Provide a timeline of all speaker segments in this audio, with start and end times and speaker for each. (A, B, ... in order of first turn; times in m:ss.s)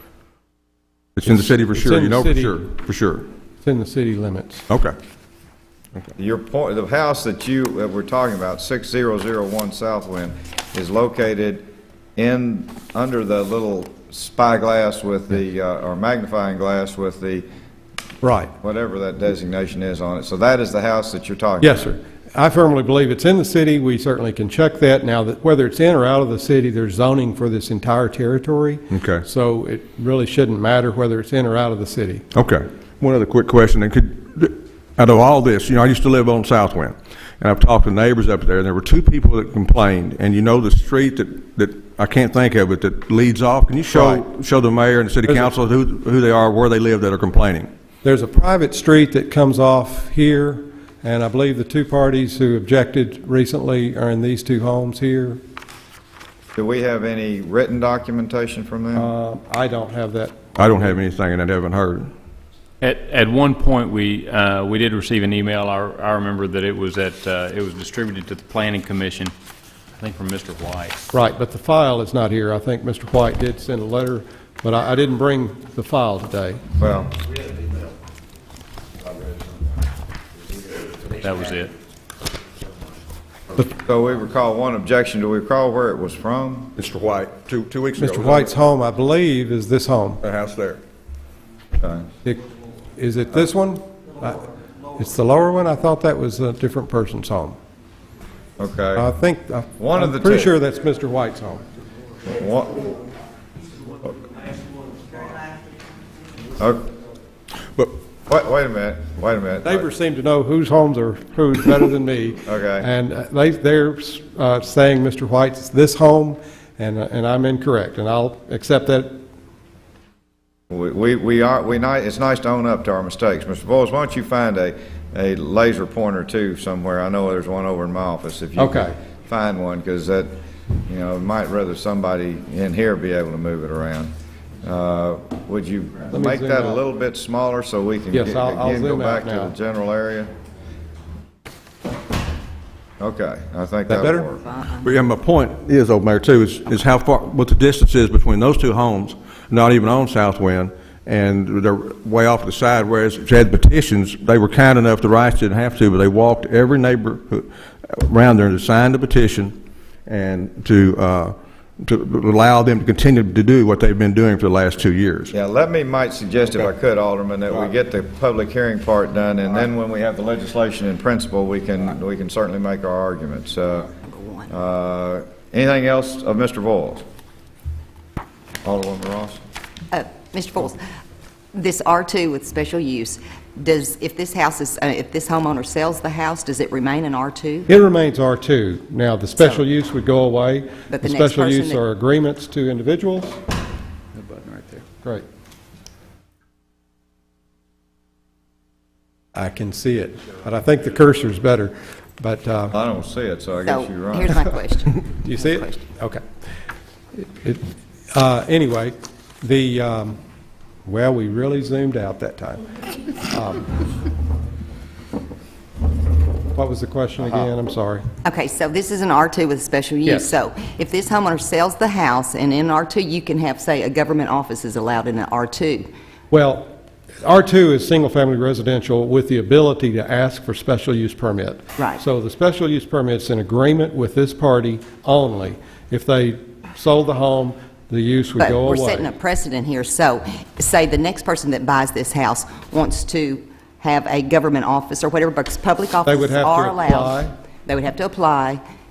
0:01.2-0:03.3 A
0:01.3-0:02.6 B
0:03.6-0:04.6 B
0:04.7-0:05.0 A
0:06.2-0:17.5 C
0:18.2-0:18.5 B
0:18.6-0:21.9 C
0:21.6-0:32.2 B
0:28.9-0:29.2 A
0:32.3-0:47.7 A
0:43.9-0:44.2 B
0:48.0-0:55.4 B
0:56.6-0:59.1 C
0:59.0-1:00.4 B
1:00.6-1:02.1 A
1:02.8-1:09.3 D
1:10.0-1:11.0 D
1:11.1-1:16.6 B
1:16.8-1:17.1 C
1:21.2-1:21.7 D
1:23.6-1:26.7 C
1:26.8-1:28.5 A
1:28.0-1:30.2 B
1:30.2-1:30.8 A
1:31.8-1:32.1 C
1:33.0-1:37.6 B
1:38.6-1:39.1 C
1:39.0-1:41.6 B
1:39.8-1:40.5 C
1:42.3-1:43.0 C
1:46.6-1:46.9 C
1:48.3-1:49.9 C
1:49.6-1:59.2 B
1:52.4-1:52.9 C
2:00.7-2:20.3 C
2:08.6-2:08.9 B
2:16.1-2:16.8 B
2:18.1-2:19.5 B
2:23.0-2:24.4 C
2:23.9-2:24.2 B
2:24.8-2:45.3 A
2:45.3-2:53.9 C
2:54.0-2:54.5 E
2:54.5-2:57.0 C
2:58.6-2:59.4 C
2:59.9-3:00.8 E
3:01.5-3:07.7 E
3:07.7-3:13.4 B
3:09.4-3:09.6 E
3:10.9-3:11.8 E
3:14.3-3:14.8 D
3:19.4-3:22.8 B
3:22.7-3:24.4 C
3:23.6-3:25.8 E
3:25.1-3:26.2 B
3:27.1-3:30.2 B
3:30.9-3:32.7 B
3:33.2-3:33.7 B
3:36.5-3:38.1 B
3:38.2-3:45.9 E
3:46.3-3:46.7 B
3:47.2-3:59.1 B
3:58.4-4:08.6 E
4:06.0-4:07.3 B